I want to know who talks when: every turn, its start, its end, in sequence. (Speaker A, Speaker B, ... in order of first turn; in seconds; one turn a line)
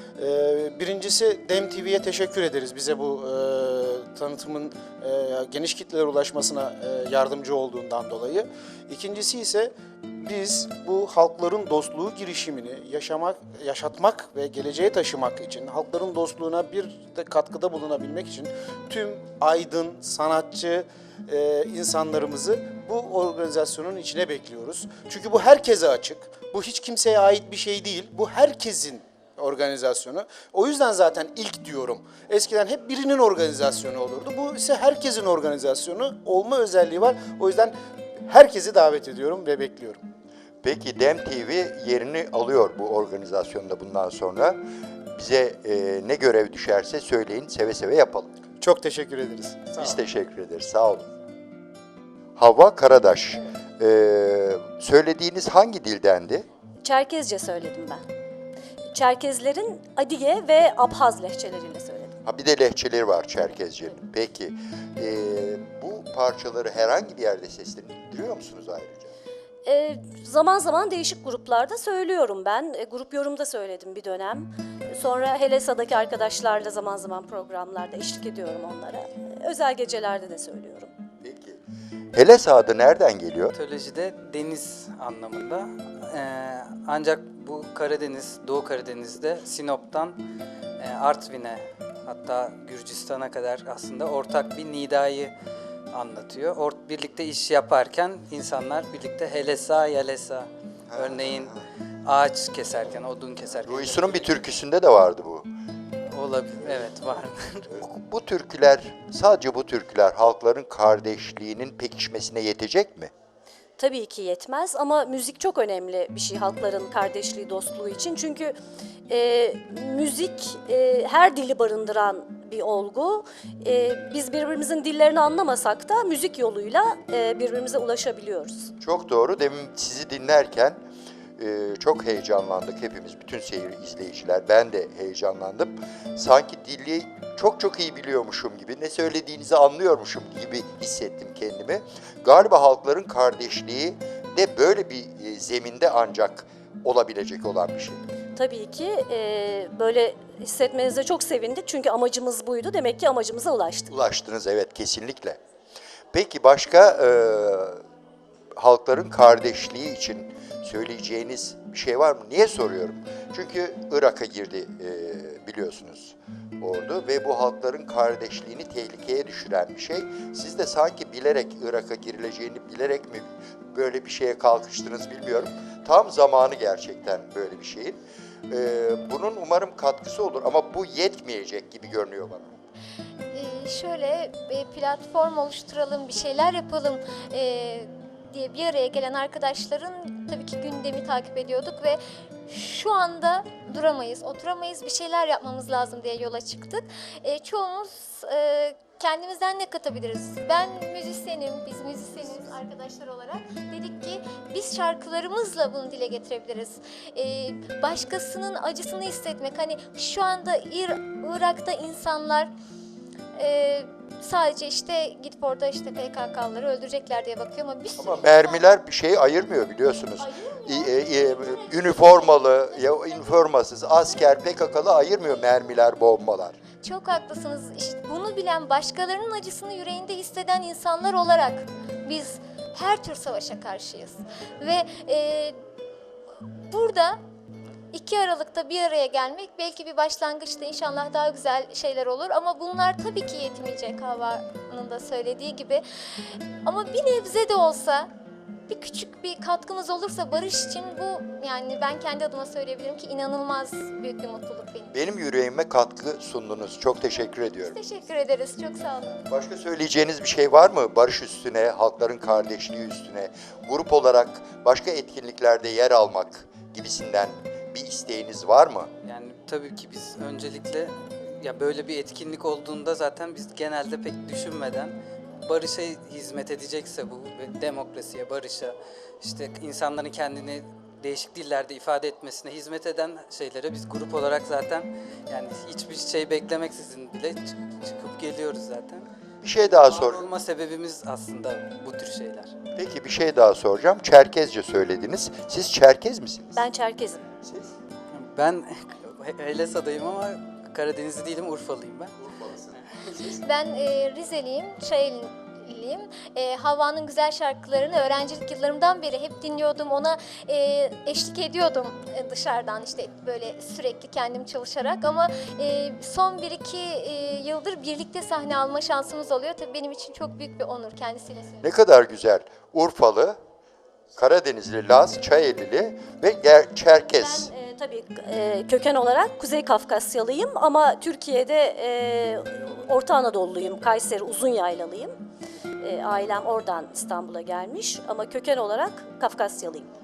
Speaker A: 0.2-40.0
Speaker B: 40.6-44.6
Speaker B: 45.1-48.3
Speaker A: 48.6-50.0
Speaker B: 49.8-51.1
Speaker B: 52.4-56.5
Speaker C: 56.8-58.0
Speaker C: 58.9-62.1
Speaker B: 62.2-69.1
Speaker C: 69.7-80.9
Speaker B: 81.2-81.6
Speaker B: 82.1-83.5
Speaker D: 83.5-90.2
Speaker D: 90.8-95.3
Speaker D: 95.9-104.4
Speaker B: 100.9-101.4
Speaker B: 103.6-105.5
Speaker D: 106.1-107.7
Speaker B: 107.8-113.1
Speaker C: 113.8-118.6
Speaker C: 119.1-128.7
Speaker B: 128.8-130.8
Speaker B: 131.4-148.0
Speaker C: 148.4-153.9
Speaker B: 153.9-155.4
Speaker B: 156.1-157.8
Speaker B: 158.6-182.6
Speaker E: 183.3-212.5
Speaker E: 213.4-218.7
Speaker B: 218.0-226.6
Speaker E: 220.2-223.5
Speaker E: 226.8-235.6
Speaker E: 236.7-237.2
Speaker E: 237.9-245.8
Speaker E: 246.7-248.1
Speaker E: 248.7-254.9
Speaker B: 254.9-257.8
Speaker E: 257.5-259.2
Speaker B: 259.3-268.9
Speaker D: 269.1-289.1
Speaker B: 289.4-290.2
Speaker D: 289.6-292.6
Speaker B: 292.8-296.6
Speaker C: 296.6-297.2
Speaker B: 297.4-297.7
Speaker D: 298.2-302.1
Speaker B: 302.2-303.4
Speaker E: 303.4-321.7
Speaker B: 321.6-323.4
Speaker B: 324.2-327.5
Speaker C: 327.1-335.2
Speaker C: 335.8-339.9